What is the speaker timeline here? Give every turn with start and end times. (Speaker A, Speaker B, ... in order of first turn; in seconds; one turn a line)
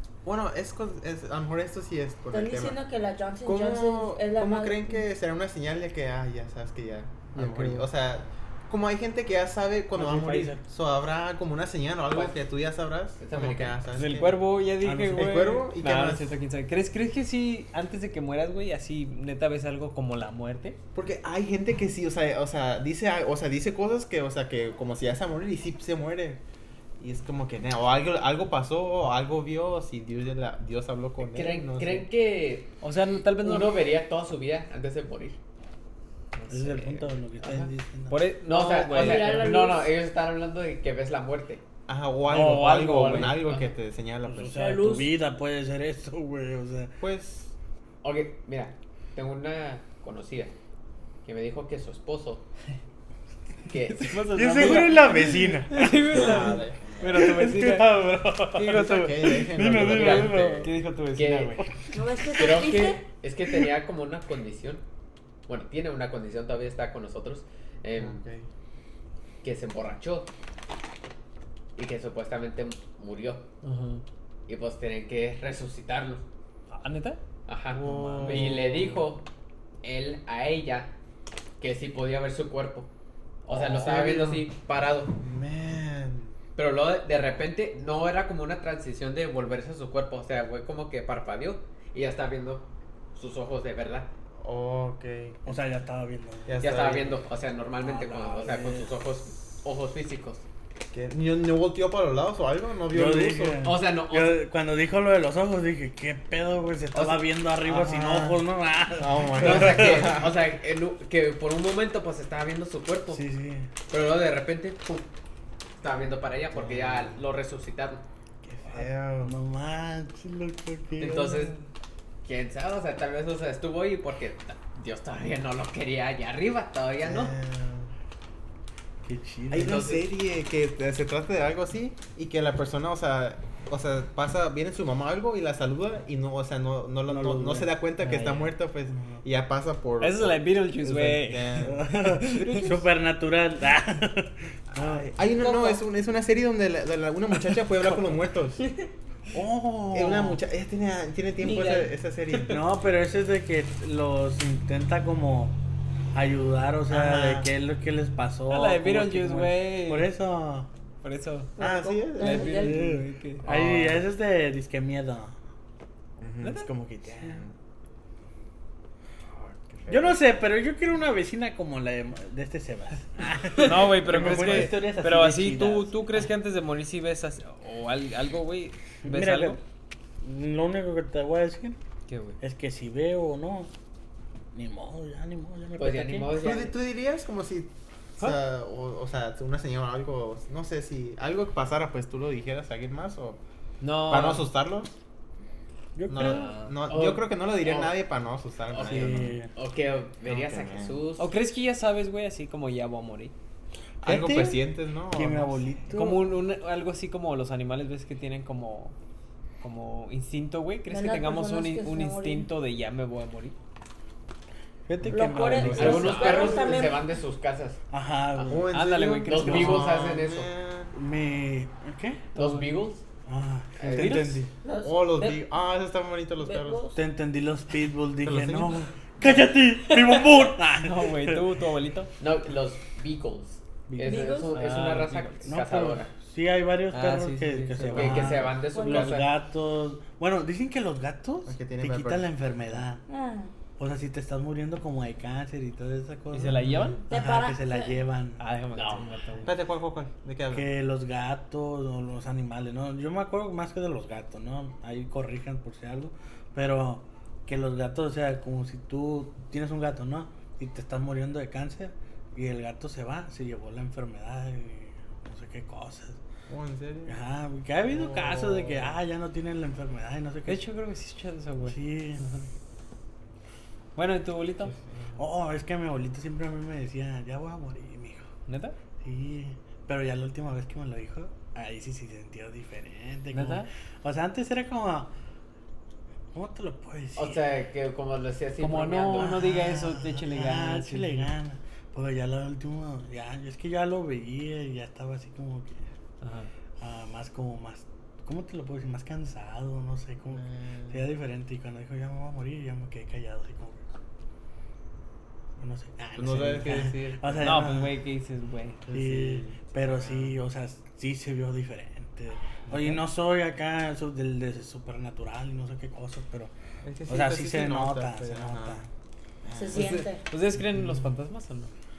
Speaker A: 0.2-2.8
Speaker B: 2.3-5.0
Speaker A: 3.4-14.4
Speaker C: 7.3-7.9
Speaker D: 10.0-10.6
Speaker C: 10.0-10.6
Speaker E: 12.1-12.4
Speaker E: 13.2-13.8
Speaker C: 13.9-20.8
Speaker D: 14.8-15.6
Speaker A: 15.2-16.3
Speaker A: 20.9-26.4
Speaker A: 27.0-32.1
Speaker E: 31.2-32.8
Speaker C: 32.8-33.8
Speaker E: 33.4-35.4
Speaker C: 36.5-36.8
Speaker D: 36.5-38.2
Speaker E: 37.4-37.7
Speaker C: 38.1-39.5
Speaker E: 38.5-41.6
Speaker B: 38.8-40.0
Speaker A: 41.9-44.8
Speaker C: 42.3-43.4
Speaker E: 43.0-43.7
Speaker D: 44.3-47.0
Speaker B: 44.6-45.1
Speaker A: 47.0-47.5
Speaker E: 48.0-50.5
Speaker E: 51.2-52.5
Speaker E: 53.7-54.8
Speaker C: 53.7-57.9
Speaker D: 54.3-56.3
Speaker A: 56.1-57.2
Speaker D: 57.1-60.7
Speaker C: 58.5-59.5
Speaker A: 58.7-60.6
Speaker E: 59.7-61.6
Speaker C: 60.6-61.6
Speaker B: 61.9-63.0
Speaker E: 62.4-64.8
Speaker E: 65.5-68.2
Speaker A: 68.0-68.5
Speaker E: 69.4-70.3
Speaker E: 71.8-73.5
Speaker C: 73.6-74.0
Speaker E: 74.5-76.2
Speaker C: 76.7-77.2
Speaker E: 77.5-79.3
Speaker D: 77.8-78.9
Speaker A: 77.9-78.5
Speaker C: 78.1-78.7
Speaker E: 79.8-80.9
Speaker E: 81.6-82.9
Speaker E: 83.5-85.2
Speaker A: 83.5-84.5
Speaker A: 85.2-86.3
Speaker E: 86.6-94.1
Speaker A: 94.4-95.5
Speaker D: 95.5-96.7
Speaker A: 96.5-97.2
Speaker E: 96.6-100.5
Speaker D: 97.8-98.9
Speaker A: 100.9-103.7
Speaker D: 102.9-110.2
Speaker E: 103.6-104.4
Speaker E: 106.9-107.3
Speaker A: 107.7-108.4
Speaker A: 109.0-110.3
Speaker E: 109.4-113.2
Speaker D: 113.1-113.7
Speaker E: 113.9-115.1
Speaker E: 115.8-118.0
Speaker A: 116.6-117.1
Speaker D: 118.5-121.6
Speaker A: 118.6-119.3
Speaker E: 121.0-121.5
Speaker E: 122.2-127.3
Speaker A: 127.0-127.9
Speaker D: 129.1-130.0
Speaker A: 129.5-142.1
Speaker E: 129.6-130.1
Speaker D: 137.1-139.2
Speaker C: 140.0-142.8
Speaker D: 141.6-145.2
Speaker A: 144.7-148.6
Speaker B: 145.5-145.8
Speaker D: 149.3-150.4
Speaker A: 149.9-152.6
Speaker E: 151.4-151.9
Speaker D: 152.5-155.6
Speaker D: 156.1-160.7
Speaker A: 156.9-157.5
Speaker C: 158.5-160.1
Speaker C: 161.0-161.5
Speaker B: 161.6-162.9
Speaker A: 161.6-162.7
Speaker C: 162.2-163.5
Speaker D: 162.5-165.3
Speaker A: 163.4-164.1
Speaker A: 166.2-167.5
Speaker C: 166.4-166.7
Speaker D: 166.7-167.4
Speaker A: 169.8-170.0
Speaker D: 169.9-176.0
Speaker C: 173.6-179.6
Speaker D: 179.1-179.6
Speaker D: 180.2-181.8
Speaker C: 182.1-182.4
Speaker D: 182.4-183.7
Speaker D: 184.5-186.4
Speaker E: 185.8-186.8
Speaker A: 186.4-193.4
Speaker C: 193.8-194.5
Speaker A: 194.1-194.9
Speaker D: 195.9-196.6
Speaker A: 196.1-199.4
Speaker C: 196.2-196.8
Speaker E: 196.9-198.0
Speaker E: 198.7-201.3
Speaker D: 198.8-199.5
Speaker A: 200.3-201.0
Speaker C: 201.2-203.3
Speaker A: 204.0-205.8
Speaker D: 204.0-206.4
Speaker C: 205.9-208.9
Speaker C: 209.6-213.6
Speaker B: 210.9-212.5
Speaker D: 214.9-216.6
Speaker B: 215.1-217.1
Speaker C: 215.6-216.5
Speaker E: 215.6-217.8
Speaker A: 215.7-216.6
Speaker D: 217.9-218.7
Speaker A: 218.5-221.0
Speaker C: 218.7-219.9
Speaker E: 219.2-220.5
Speaker D: 219.5-219.8
Speaker D: 220.9-222.3
Speaker C: 222.3-222.7
Speaker E: 222.3-223.1
Speaker D: 223.3-224.5
Speaker E: 223.8-224.3
Speaker C: 223.8-224.4
Speaker B: 224.6-225.4
Speaker A: 224.8-226.9
Speaker B: 226.4-227.0
Speaker D: 226.9-231.4
Speaker A: 228.2-228.9
Speaker C: 230.8-232.1
Speaker E: 232.2-236.1
Speaker D: 233.9-234.4
Speaker B: 234.0-234.6
Speaker C: 234.5-235.5
Speaker D: 235.5-243.0
Speaker C: 236.9-238.4
Speaker E: 237.9-239.3
Speaker B: 238.7-239.2
Speaker A: 241.5-242.3
Speaker B: 243.1-243.5
Speaker D: 243.8-248.4
Speaker C: 246.3-247.0
Speaker B: 247.1-248.0
Speaker C: 248.4-249.5
Speaker E: 248.7-249.1
Speaker A: 249.4-250.7
Speaker D: 250.5-266.2
Speaker A: 266.5-267.2
Speaker D: 267.1-270.6
Speaker A: 267.9-268.9
Speaker C: 270.5-272.4
Speaker D: 271.6-272.2
Speaker C: 274.0-274.7
Speaker D: 275.2-278.3
Speaker C: 278.5-278.8
Speaker D: 279.0-285.1
Speaker C: 283.3-283.7
Speaker D: 286.3-287.5
Speaker E: 287.2-289.4
Speaker C: 288.6-291.3
Speaker D: 289.2-295.8
Speaker C: 296.2-296.5
Speaker D: 296.8-303.8
Speaker A: 300.4-300.9
Speaker D: 305.6-308.0
Speaker A: 306.2-307.6
Speaker C: 307.4-308.8
Speaker A: 308.9-310.3
Speaker D: 308.9-316.5
Speaker A: 317.0-318.9
Speaker D: 317.1-318.9
Speaker A: 319.4-320.0
Speaker B: 319.5-320.2
Speaker C: 319.7-321.7
Speaker D: 320.6-321.1